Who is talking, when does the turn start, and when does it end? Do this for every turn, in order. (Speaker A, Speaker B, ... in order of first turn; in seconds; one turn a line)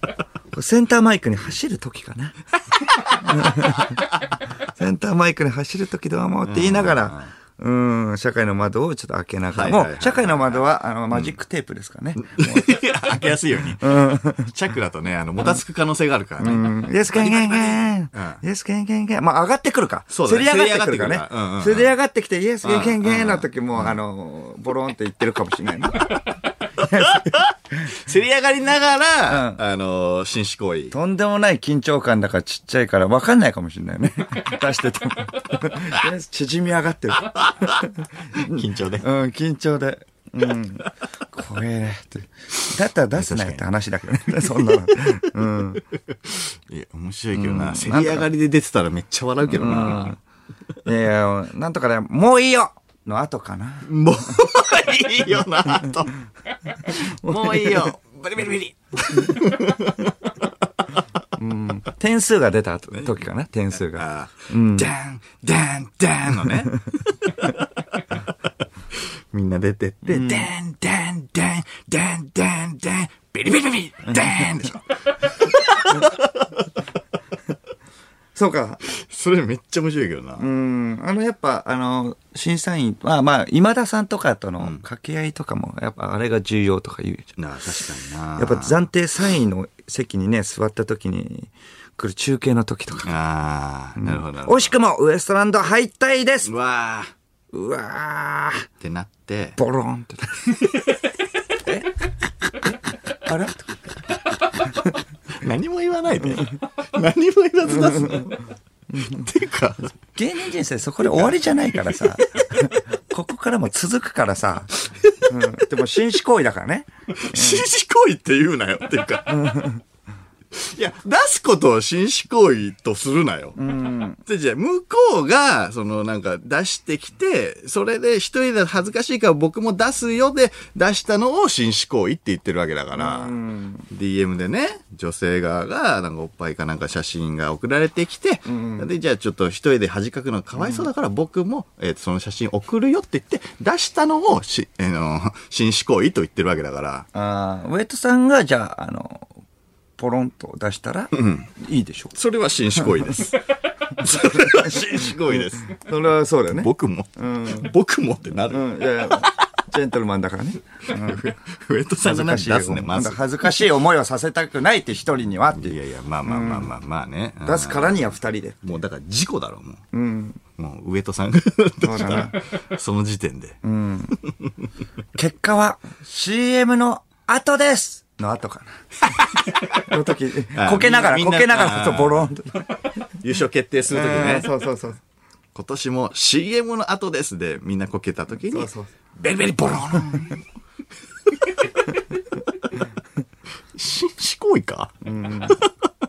Speaker A: 0.5-2.4
Speaker B: 3.1-3.8
Speaker A: 3.1-4.0
Speaker A: 4.7-12.8
Speaker B: 6.5-7.3
Speaker B: 9.5-11.3
Speaker B: 12.2-18.4
Speaker A: 13.8-14.5
Speaker A: 16.4-26.1
Speaker B: 20.1-21.9
Speaker B: 22.6-24.0
Speaker B: 26.8-30.9
Speaker A: 26.8-27.4
Speaker A: 29.3-29.6
Speaker A: 30.9-45.8
Speaker B: 37.2-39.1
Speaker B: 43.1-43.7
Speaker B: 46.1-50.2
Speaker A: 47.3-48.3
Speaker A: 49.5-50.2
Speaker A: 50.9-53.9
Speaker B: 53.9-56.2
Speaker B: 56.7-60.3
Speaker A: 57.2-57.9
Speaker A: 61.4-64.9
Speaker B: 63.9-76.8
Speaker A: 66.4-66.7
Speaker A: 70.0-70.5
Speaker A: 74.1-74.5
Speaker A: 78.3-78.8
Speaker B: 78.9-80.5
Speaker A: 80.4-87.3
Speaker B: 87.4-88.8
Speaker A: 88.4-93.1
Speaker B: 93.0-94.7
Speaker A: 94.0-96.5
Speaker B: 96.4-97.1
Speaker A: 97.5-98.7
Speaker B: 98.8-99.6
Speaker A: 99.6-100.5
Speaker A: 101.7-102.0
Speaker A: 103.2-103.9
Speaker A: 104.7-104.9
Speaker B: 105.4-108.5
Speaker A: 107.7-108.3
Speaker A: 108.9-109.2
Speaker B: 109.0-109.9
Speaker A: 110.2-114.7
Speaker B: 111.0-111.8
Speaker B: 115.0-115.3
Speaker A: 115.3-117.6
Speaker B: 117.1-119.7
Speaker A: 119.3-119.8
Speaker B: 120.5-123.6
Speaker A: 123.6-124.2
Speaker B: 124.2-133.3
Speaker A: 132.9-133.9
Speaker B: 133.9-147.1
Speaker A: 138.5-138.9
Speaker A: 140.6-140.9
Speaker A: 147.1-149.3
Speaker A: 150.0-152.1
Speaker B: 151.1-151.5
Speaker B: 152.1-155.8
Speaker A: 152.8-153.1
Speaker A: 154.0-157.7
Speaker B: 156.5-159.5
Speaker A: 158.5-161.2
Speaker B: 160.9-163.4
Speaker A: 162.0-166.7
Speaker B: 165.5-169.8
Speaker A: 167.4-168.6
Speaker A: 169.9-170.4
Speaker B: 170.6-173.6
Speaker A: 171.8-172.4
Speaker A: 173.6-174.2
Speaker A: 175.2-179.1
Speaker B: 179.2-179.9
Speaker A: 179.6-182.6
Speaker B: 180.5-182.3
Speaker B: 183.2-184.5
Speaker A: 183.9-185.0
Speaker B: 185.6-190.4
Speaker A: 188.5-188.9
Speaker B: 193.8-195.9
Speaker A: 195.0-195.6